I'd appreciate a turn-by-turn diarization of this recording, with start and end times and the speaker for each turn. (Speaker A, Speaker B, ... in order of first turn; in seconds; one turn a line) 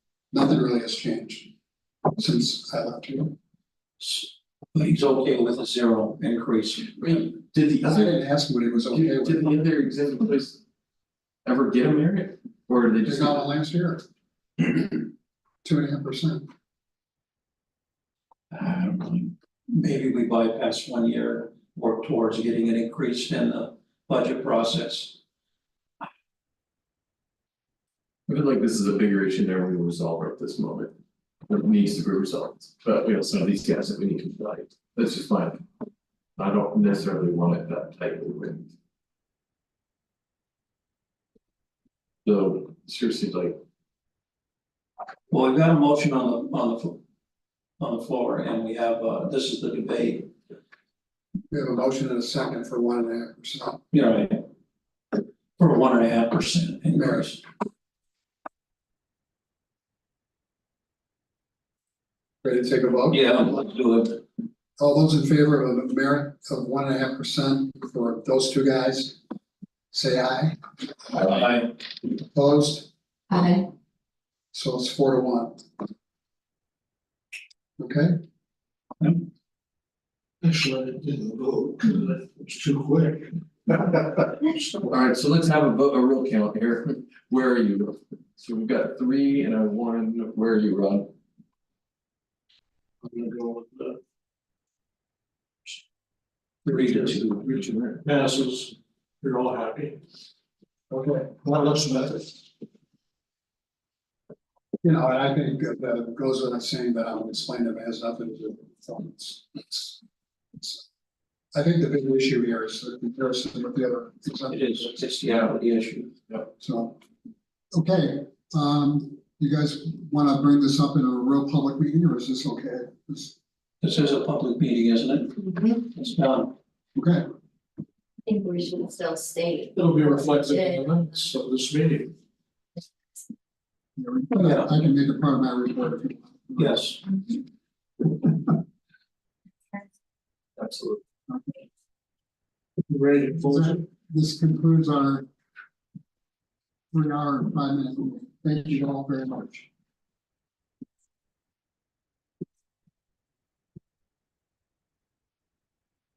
Speaker A: 0.3-1.5
Speaker A: 2.2-3.4
Speaker B: 4.0-7.0
Speaker C: 6.9-8.2
Speaker A: 7.8-9.5
Speaker C: 8.9-10.6
Speaker C: 11.4-13.5
Speaker A: 13.0-14.0
Speaker A: 15.6-16.5
Speaker B: 18.5-25.1
Speaker C: 28.3-30.9
Speaker C: 31.5-35.6
Speaker C: 36.4-38.7
Speaker C: 42.2-43.6
Speaker B: 45.3-47.0
Speaker B: 47.8-50.3
Speaker A: 51.5-53.8
Speaker B: 53.9-54.4
Speaker B: 55.6-57.4
Speaker A: 56.9-57.3
Speaker A: 62.4-63.5
Speaker B: 63.1-64.2
Speaker A: 64.8-69.2
Speaker A: 69.9-70.6
Speaker B: 71.2-71.7
Speaker C: 71.3-71.6
Speaker A: 72.2-72.9
Speaker D: 73.3-73.7
Speaker A: 74.5-75.6
Speaker A: 77.8-78.2
Speaker E: 80.4-84.0
Speaker C: 84.9-91.1
Speaker E: 93.0-94.0
Speaker B: 96.6-97.5
Speaker E: 96.8-100.0
Speaker A: 100.9-101.3
Speaker E: 101.4-102.3
Speaker A: 104.8-110.0
Speaker A: 110.6-110.8
Speaker A: 111.5-115.0
Speaker B: 114.5-116.1
Speaker A: 116.6-117.0
Speaker A: 117.7-123.3
Speaker B: 123.8-126.5
Speaker A: 127.0-127.2
Speaker D: 128.2-130.9
Speaker E: 129.7-132.1
Speaker A: 134.0-136.9
Speaker B: 134.3-134.7
Speaker B: 136.6-137.0
Speaker C: 140.6-141.0
Speaker A: 141.3-141.6
Speaker E: 142.9-143.8
Speaker A: 143.4-145.2
Speaker A: 146.9-149.7